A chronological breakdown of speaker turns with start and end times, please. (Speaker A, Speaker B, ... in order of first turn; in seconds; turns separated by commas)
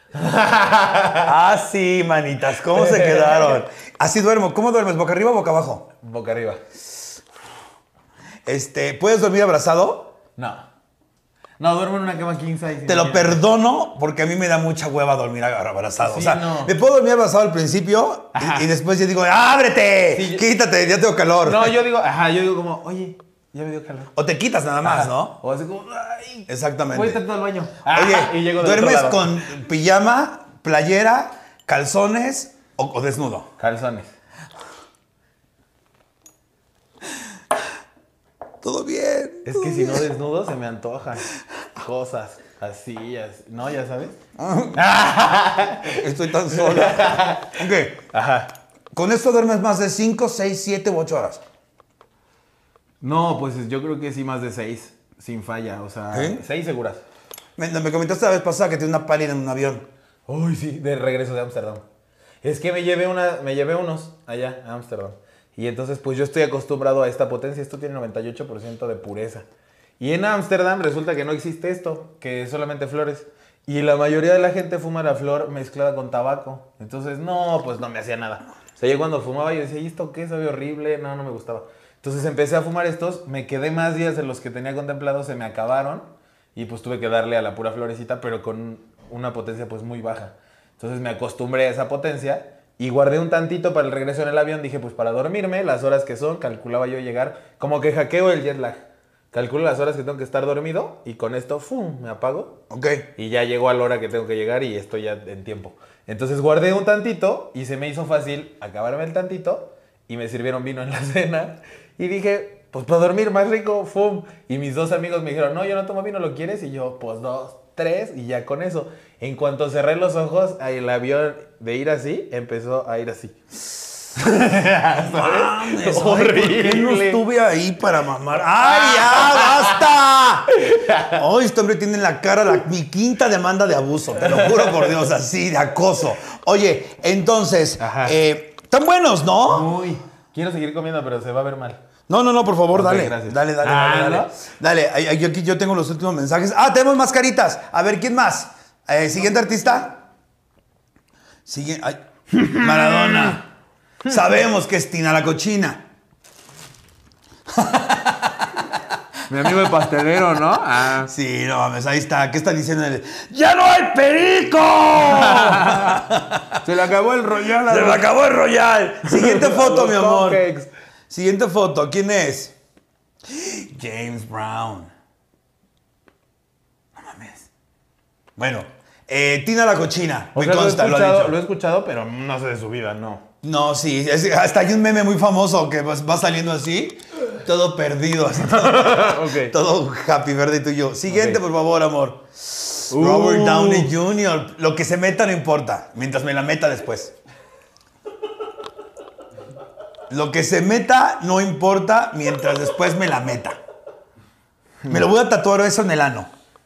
Speaker A: 0.1-1.3, Speaker B: 1.2-5.9, Speaker A: 2.7-3.6, Speaker A: 6.0-6.6, Speaker B: 8.4-10.1, Speaker A: 10.4-10.7, Speaker A: 11.6-13.4, Speaker B: 12.9-21.8, Speaker A: 16.0-16.7, Speaker A: 18.4-18.7, Speaker A: 20.1-20.4, Speaker A: 21.4-24.1, Speaker B: 24.1-25.4, Speaker A: 24.8-29.3, Speaker B: 26.5-27.2, Speaker B: 27.9-33.5, Speaker A: 33.6-34.1, Speaker B: 38.6-40.0, Speaker A: 39.5-44.2, Speaker B: 44.4-44.8, Speaker A: 44.7-47.6, Speaker B: 45.9-48.1, Speaker A: 48.1-48.5, Speaker B: 48.9-51.4, Speaker A: 53.0-57.0, Speaker B: 56.1-56.4, Speaker B: 57.6-59.9, Speaker A: 60.3-61.8, Speaker A: 62.4-69.5, Speaker A: 70.0-102.6, Speaker B: 102.7-103.1, Speaker A: 103.2-123.4, Speaker A: 124.2-127.2, Speaker B: 124.9-139.7, Speaker A: 128.6-129.8, Speaker A: 130.5-131.2, Speaker A: 134.2-134.9, Speaker A: 137.8-138.2, Speaker A: 139.5-141.8, Speaker B: 142.1-150.0, Speaker A: 142.7-144.3, Speaker B: 151.5-153.4, Speaker A: 152.3-153.4, Speaker B: 154.1-155.8, Speaker B: 157.5-158.8, Speaker A: 159.3-161.1, Speaker B: 161.0-166.6, Speaker A: 165.0-166.0, Speaker A: 166.6-168.1, Speaker B: 167.7-170.4, Speaker A: 169.1-170.7, Speaker B: 171.1-172.5, Speaker B: 173.3-174.9, Speaker B: 177.0-177.5, Speaker B: 178.4-181.4, Speaker A: 180.3-183.2, Speaker B: 183.4-197.1, Speaker A: 188.4-189.6, Speaker A: 191.1-191.4, Speaker A: 192.9-193.9, Speaker B: 200.1-203.6, Speaker B: 204.9-206.3